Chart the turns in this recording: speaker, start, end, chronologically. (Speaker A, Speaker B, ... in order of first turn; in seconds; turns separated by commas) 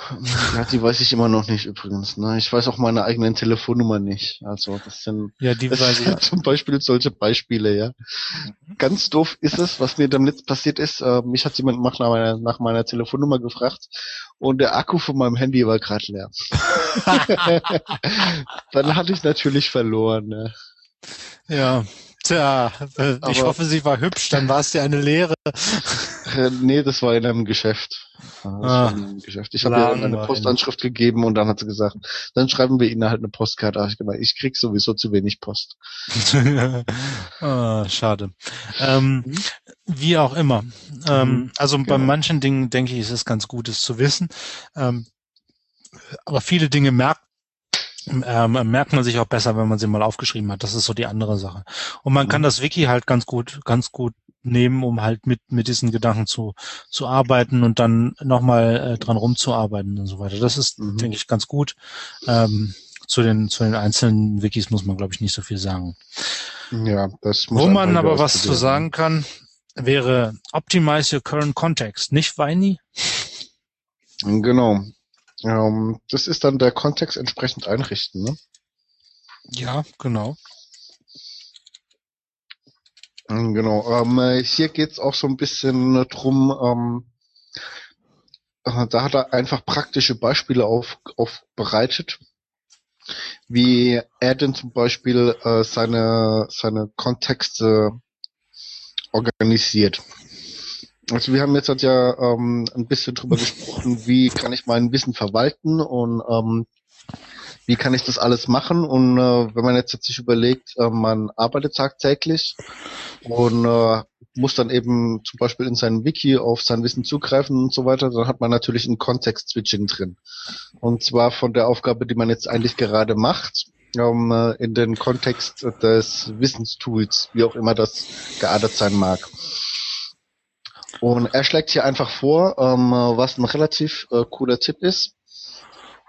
Speaker A: 0.1-13.9, Speaker B: 5.4-6.2, Speaker A: 14.4-20.5, Speaker B: 16.8-17.7, Speaker B: 21.5-26.3, Speaker A: 23.2-23.6, Speaker A: 26.2-35.8, Speaker B: 28.6-29.0, Speaker B: 29.6-30.5, Speaker B: 36.1-45.1, Speaker A: 41.1-42.1, Speaker B: 46.1-47.2, Speaker B: 48.1-66.4, Speaker A: 60.8-61.1, Speaker A: 66.7-68.8, Speaker B: 67.5-73.3, Speaker A: 74.2-78.4, Speaker B: 79.5-80.4, Speaker A: 83.3-87.1, Speaker A: 88.7-92.2, Speaker A: 93.5-98.0, Speaker A: 99.1-100.0, Speaker A: 101.1-106.7, Speaker A: 107.7-112.6, Speaker A: 113.2-120.2, Speaker A: 120.8-129.3, Speaker A: 131.0-135.1